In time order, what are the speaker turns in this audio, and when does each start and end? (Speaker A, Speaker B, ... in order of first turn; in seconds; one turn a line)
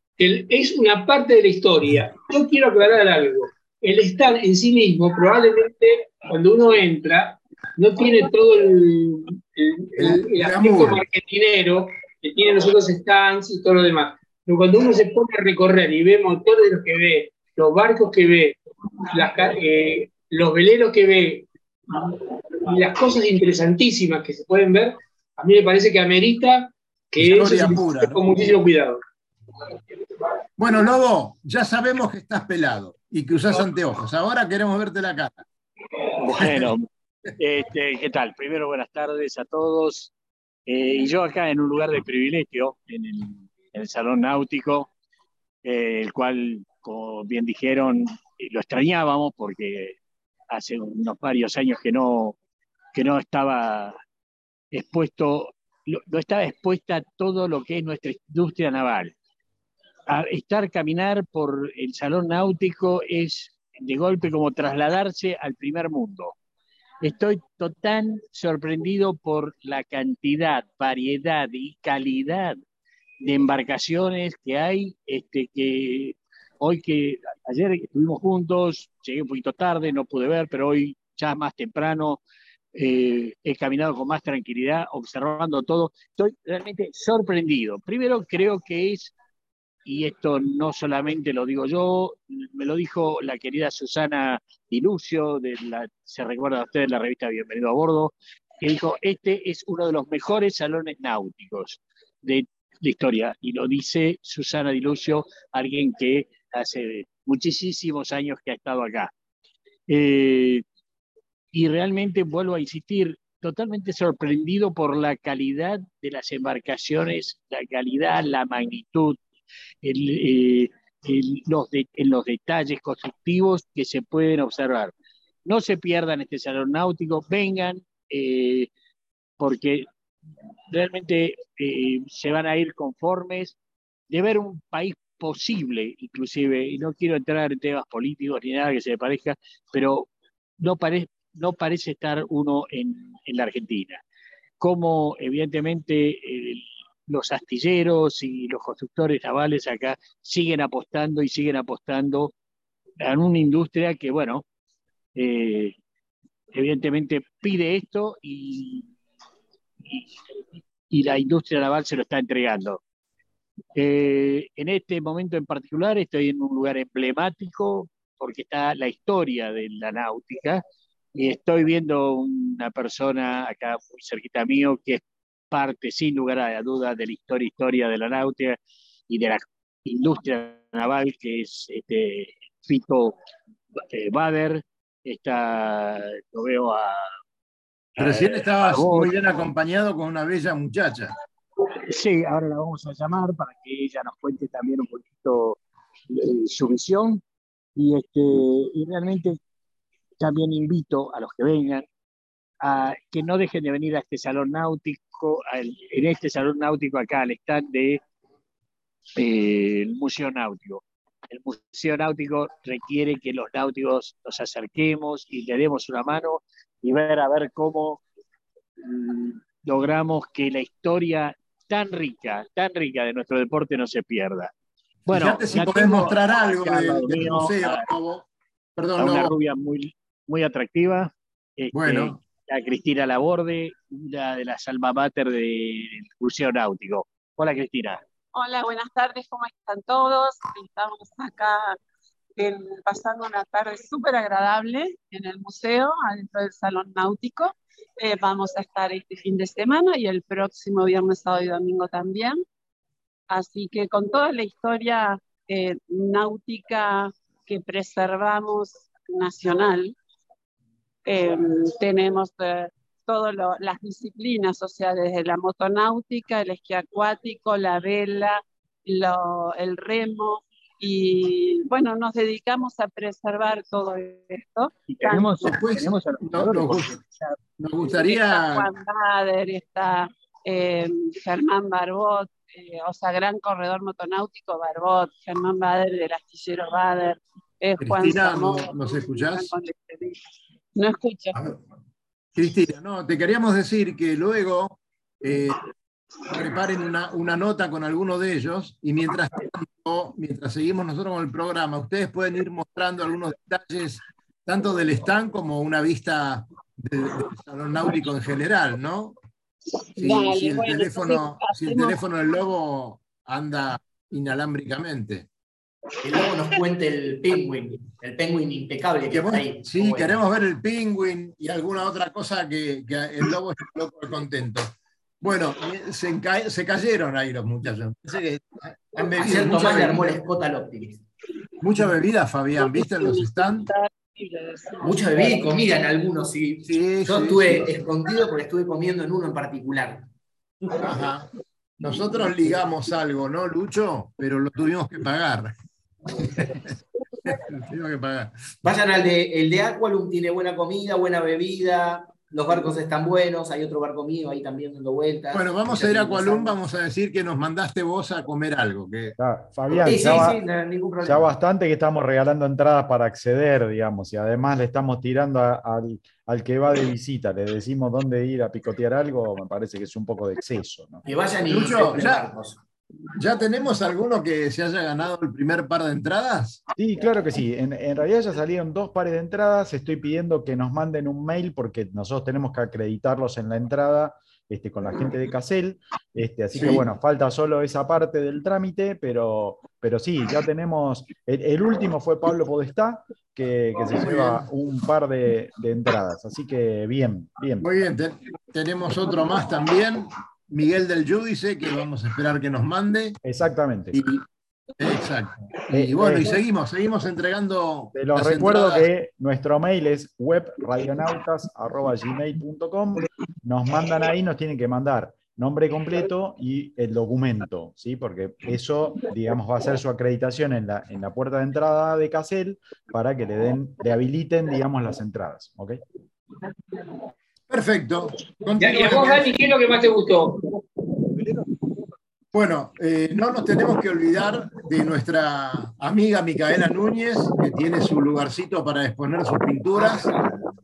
Speaker A: 0.2-18.6
Speaker B: 10.0-11.0
Speaker A: 19.1-29.0
Speaker B: 27.2-28.2
Speaker B: 30.6-35.4
Speaker C: 36.2-40.1
Speaker B: 36.4-36.7
Speaker C: 40.7-44.9
Speaker C: 45.6-50.0
Speaker C: 50.5-52.4
Speaker C: 53.0-54.0
Speaker C: 54.7-59.1
Speaker C: 60.1-66.4
Speaker C: 67.0-72.6
Speaker C: 73.2-82.2
Speaker C: 82.8-89.1
Speaker C: 89.8-109.1
Speaker C: 109.9-110.6
Speaker C: 111.5-119.2
Speaker C: 119.8-124.9
Speaker C: 125.5-128.7
Speaker C: 129.4-129.9
Speaker C: 130.7-133.6
Speaker C: 134.1-140.1
Speaker C: 140.6-144.0
Speaker C: 144.6-152.3
Speaker C: 153.0-154.4
Speaker C: 155.2-155.8
Speaker C: 156.5-158.9
Speaker C: 160.9-162.8
Speaker C: 163.8-170.6
Speaker C: 171.2-183.2
Speaker C: 183.9-187.2
Speaker C: 188.0-189.2
Speaker B: 188.0-191.1
Speaker C: 191.7-195.6
Speaker C: 196.1-197.2
Speaker C: 197.8-199.4
Speaker C: 200.2-201.9
Speaker C: 202.6-208.0
Speaker C: 209.2-218.0
Speaker C: 218.8-224.5
Speaker C: 225.1-227.9
Speaker B: 225.1-229.3
Speaker C: 229.0-238.0
Speaker B: 231.7-232.2
Speaker D: 238.3-241.8
Speaker D: 242.4-252.4
Speaker D: 253.3-260.0
Speaker D: 261.1-275.3
Speaker C: 274.9-277.4
Speaker B: 275.4-277.0
Speaker B: 277.6-278.7
Speaker D: 278.0-290.2
Speaker B: 287.8-289.6
Speaker D: 290.8-291.4
Speaker B: 292.4-295.6
Speaker B: 296.3-309.2
Speaker D: 309.8-312.0
Speaker B: 310.0-315.3
Speaker E: 316.0-320.2
Speaker B: 319.1-330.2
Speaker E: 329.2-331.0
Speaker B: 331.6-333.7
Speaker D: 332.7-335.1
Speaker E: 334.8-340.1
Speaker B: 336.6-337.7
Speaker B: 340.8-341.3
Speaker B: 341.8-345.5
Speaker B: 346.2-348.6
Speaker E: 348.6-356.6
Speaker B: 355.3-359.2
Speaker F: 359.2-360.4
Speaker E: 359.8-361.3
Speaker F: 361.0-371.1
Speaker E: 371.1-372.6
Speaker B: 371.5-372.3
Speaker B: 373.2-376.6
Speaker F: 376.8-397.7
Speaker B: 386.5-386.9
Speaker B: 393.9-394.4
Speaker B: 397.6-403.2
Speaker F: 403.2-404.0
Speaker B: 403.9-404.2
Speaker B: 404.8-408.9
Speaker F: 405.7-406.4
Speaker F: 407.9-425.8
Speaker B: 427.5-429.4
Speaker A: 428.6-430.4
Speaker B: 432.3-440.1